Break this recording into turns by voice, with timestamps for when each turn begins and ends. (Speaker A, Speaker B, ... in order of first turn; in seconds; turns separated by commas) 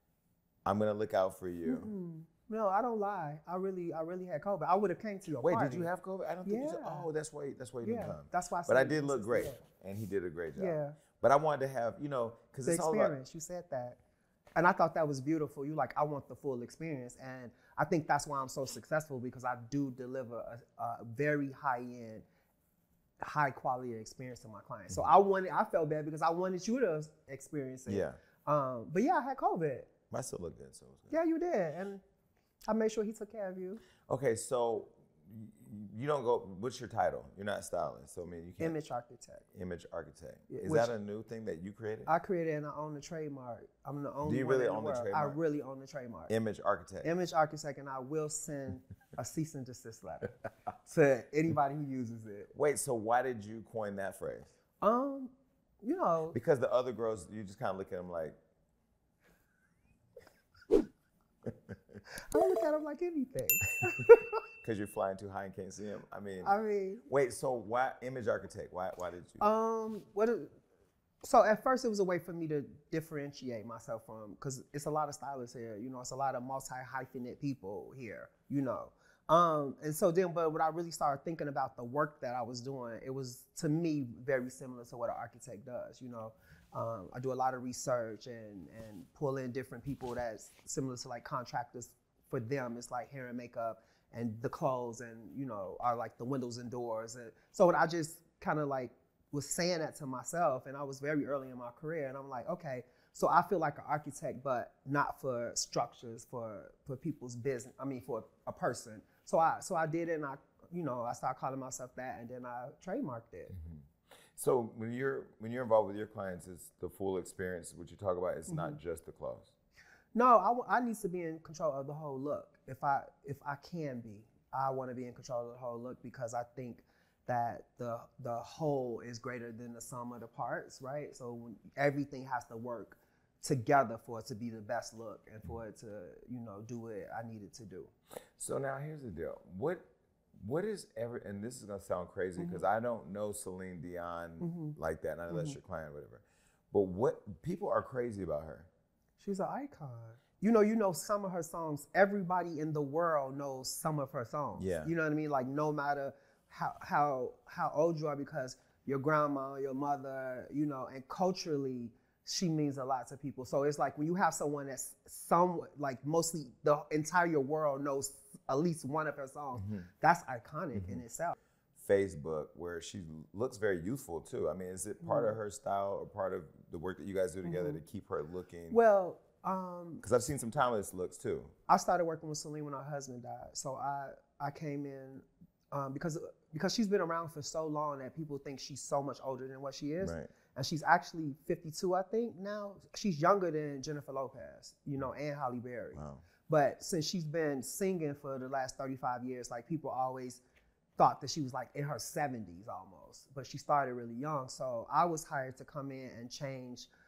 Speaker A: 0.6-1.9, Speaker B: 1.6-5.9, Speaker A: 5.4-13.1, Speaker B: 6.4-7.1, Speaker B: 7.8-9.6, Speaker B: 10.6-11.0, Speaker B: 12.7-14.0, Speaker B: 14.6-22.2, Speaker B: 23.2-29.9, Speaker A: 27.9-28.2, Speaker A: 30.1-31.1, Speaker B: 31.1-32.0, Speaker B: 32.7-33.8, Speaker A: 34.1-38.8, Speaker B: 38.6-39.4, Speaker A: 39.5-42.1, Speaker B: 40.5-40.9, Speaker B: 42.0-46.3, Speaker A: 44.2-45.4, Speaker A: 46.3-47.1, Speaker B: 47.0-52.5, Speaker A: 52.5-54.5, Speaker B: 54.8-56.4, Speaker A: 56.3-58.4, Speaker B: 62.2-64.4, Speaker A: 64.6-66.5, Speaker B: 66.4-67.0, Speaker A: 67.1-69.4, Speaker B: 69.4-70.5, Speaker B: 71.2-113.5, Speaker A: 113.5-113.8, Speaker A: 114.3-119.5, Speaker B: 118.5-118.8, Speaker B: 120.1-137.9, Speaker A: 138.4-148.7, Speaker B: 142.4-142.6, Speaker B: 144.4-144.8, Speaker B: 145.3-145.6, Speaker B: 149.2-171.4, Speaker A: 154.6-154.9, Speaker A: 169.6-169.8, Speaker A: 170.7-171.0, Speaker A: 171.8-178.8, Speaker B: 175.0-175.3, Speaker B: 177.4-177.8, Speaker B: 178.7-180.0, Speaker A: 180.0-181.5, Speaker B: 181.7-200.4, Speaker A: 190.0-190.3, Speaker A: 195.9-196.2, Speaker B: 201.0-206.9